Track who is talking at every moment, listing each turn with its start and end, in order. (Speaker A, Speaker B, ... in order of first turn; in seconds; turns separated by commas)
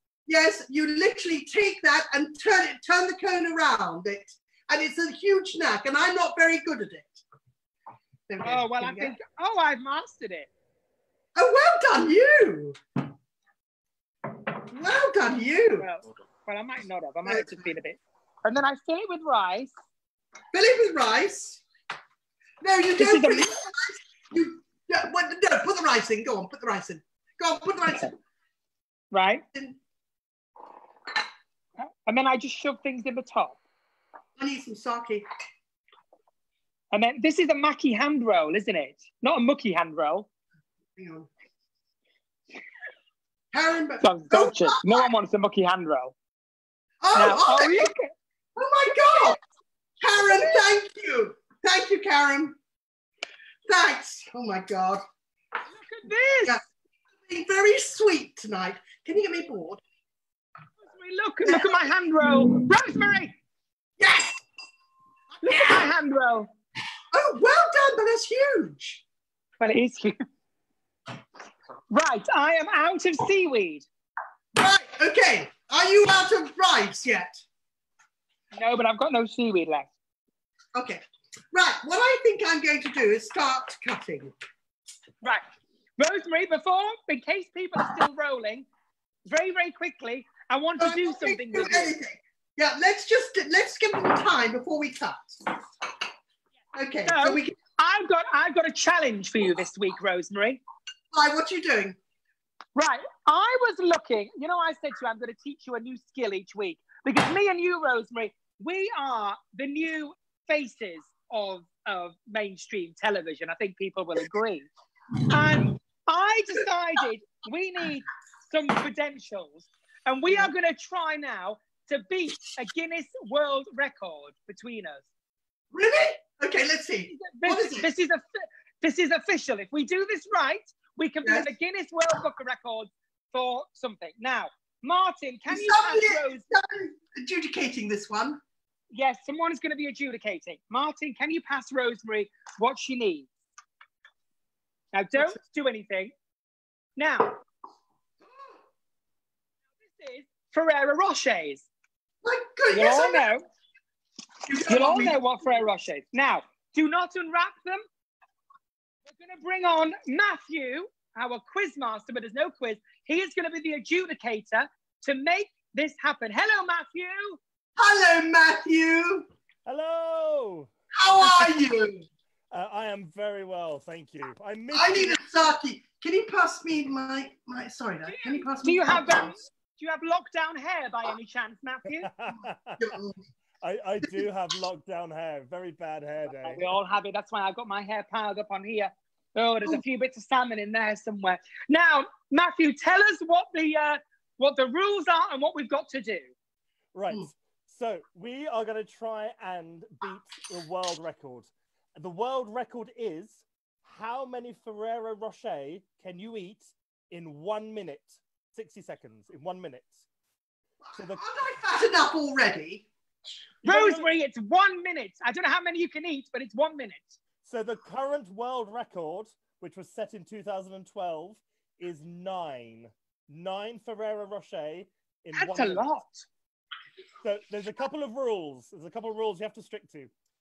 Speaker A: 0.3-7.2, Speaker A: 8.3-9.2, Speaker B: 8.4-10.5, Speaker A: 11.4-12.8, Speaker A: 14.6-15.9, Speaker B: 15.8-19.7, Speaker A: 17.2-17.7, Speaker A: 20.5-21.6, Speaker A: 22.6-28.1, Speaker B: 23.0-23.5, Speaker B: 29.1-29.4, Speaker B: 31.8-33.6, Speaker A: 34.4-35.3, Speaker B: 36.9-40.3, Speaker A: 41.0-41.3, Speaker A: 43.5-45.1, Speaker B: 44.0-46.1, Speaker A: 47.0-47.9, Speaker B: 47.1-48.1, Speaker A: 48.6-49.4, Speaker B: 49.1-49.4, Speaker A: 50.0-52.6, Speaker B: 50.3-50.6, Speaker A: 53.7-55.0, Speaker B: 55.7-56.6, Speaker A: 57.2-59.8, Speaker B: 60.8-63.4, Speaker A: 61.5-62.7, Speaker A: 64.0-64.4, Speaker A: 65.3-65.9, Speaker B: 65.4-66.5, Speaker A: 67.1-69.0, Speaker B: 69.6-70.2, Speaker B: 71.9-73.9, Speaker A: 74.5-77.5, Speaker B: 78.5-79.9, Speaker A: 80.8-84.3, Speaker B: 86.0-88.7, Speaker B: 89.3-91.9, Speaker A: 90.8-95.4, Speaker A: 96.7-97.6, Speaker B: 97.0-100.6, Speaker A: 101.1-102.0, Speaker B: 102.8-114.7, Speaker B: 115.3-125.0, Speaker A: 125.7-127.9, Speaker B: 127.1-136.4, Speaker A: 131.2-131.5, Speaker A: 135.5-138.4, Speaker B: 138.9-143.3, Speaker B: 144.9-146.1, Speaker B: 147.0-147.4, Speaker B: 149.8-151.7, Speaker A: 152.2-153.3, Speaker B: 152.7-153.4, Speaker A: 154.5-155.2, Speaker B: 154.7-157.8, Speaker B: 159.1-167.4, Speaker A: 167.8-169.3, Speaker C: 169.7-170.7, Speaker A: 170.9-172.1, Speaker C: 171.2-171.5, Speaker C: 172.5-175.2, Speaker A: 174.7-179.4, Speaker B: 178.1-182.1, Speaker C: 182.0-182.9, Speaker A: 182.8-183.2, Speaker C: 183.6-186.6, Speaker B: 186.3-196.3, Speaker C: 196.9-210.0, Speaker A: 210.9-212.9, Speaker C: 211.0-211.2, Speaker C: 213.6-214.1, Speaker B: 213.6-217.2, Speaker C: 217.4-226.0, Speaker B: 225.3-226.3, Speaker C: 227.2-230.1